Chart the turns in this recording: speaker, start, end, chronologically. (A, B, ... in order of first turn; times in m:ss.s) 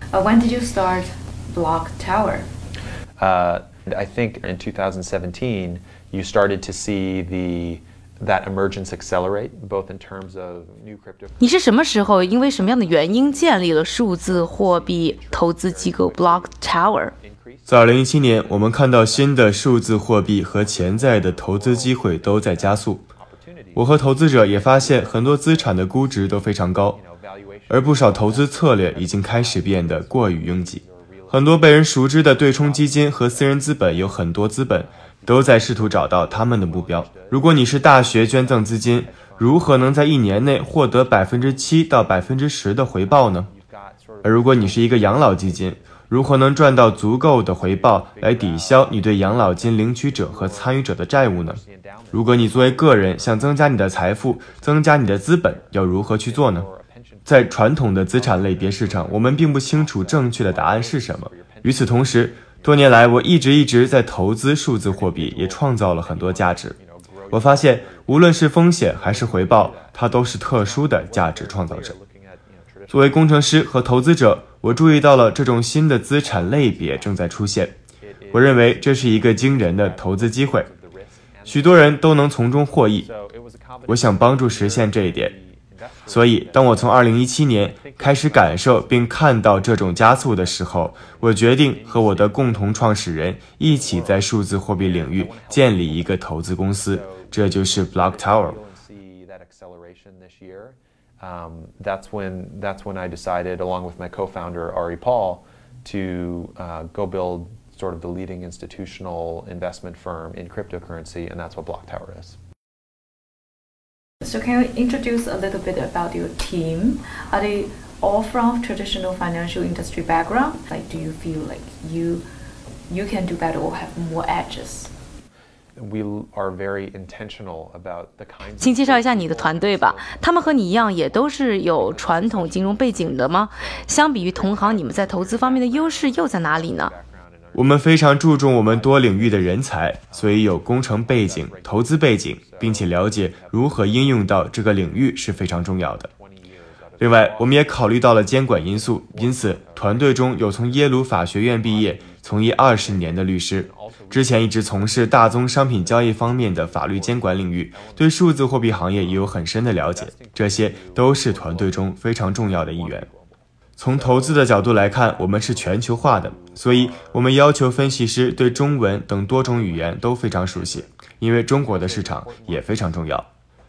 0:00.1-0:02.5 A
0:03.2-0:11.6 B
0:11.4-0:17.1 C
0:12.3-0:13.6 B
0:14.2-0:17.7 B
0:17.7-0:23.1 D
0:18.8-0:19.4 B
0:20.0-0:23.8 B
0:23.8-0:27.0 D
0:24.5-0:26.4 B
0:27.0-0:31.4 B
0:27.7-0:43.5 D
0:32.3-0:33.6 B
0:34.8-0:39.9 B
0:41.2-0:42.3 B
0:43.0-0:46.1 B
0:44.2-0:51.6 D
0:47.6-0:53.7 B
0:52.1-0:56.7 D
0:55.5-0:57.5 B
0:57.3-1:06.7 D
0:58.1-1:02.6 B
1:04.9-1:08.3 B
1:07.3-1:11.9 D
1:08.8-1:13.3 B
1:12.9-1:17.7 D
1:16.2-1:17.2 B
1:18.1-1:21.9 B
1:18.3-1:20.7 D
1:21.5-1:23.1 D
1:23.0-1:27.0 B
1:23.9-1:25.3 D
1:26.1-1:38.6 D
1:27.7-1:36.2 B
1:36.9-1:52.4 B
1:54.2-2:02.2 A
2:02.9-2:04.9 A
2:05.8-2:24.3 B
2:08.6-2:16.9 C
2:17.5-2:26.1 D
2:26.2-2:30.8 B
2:27.0-2:43.1 D
2:31.6-2:43.4 B
2:43.8-2:53.3 D
2:43.9-2:47.2 B
2:48.4-2:50.9 B
2:51.6-2:52.8 B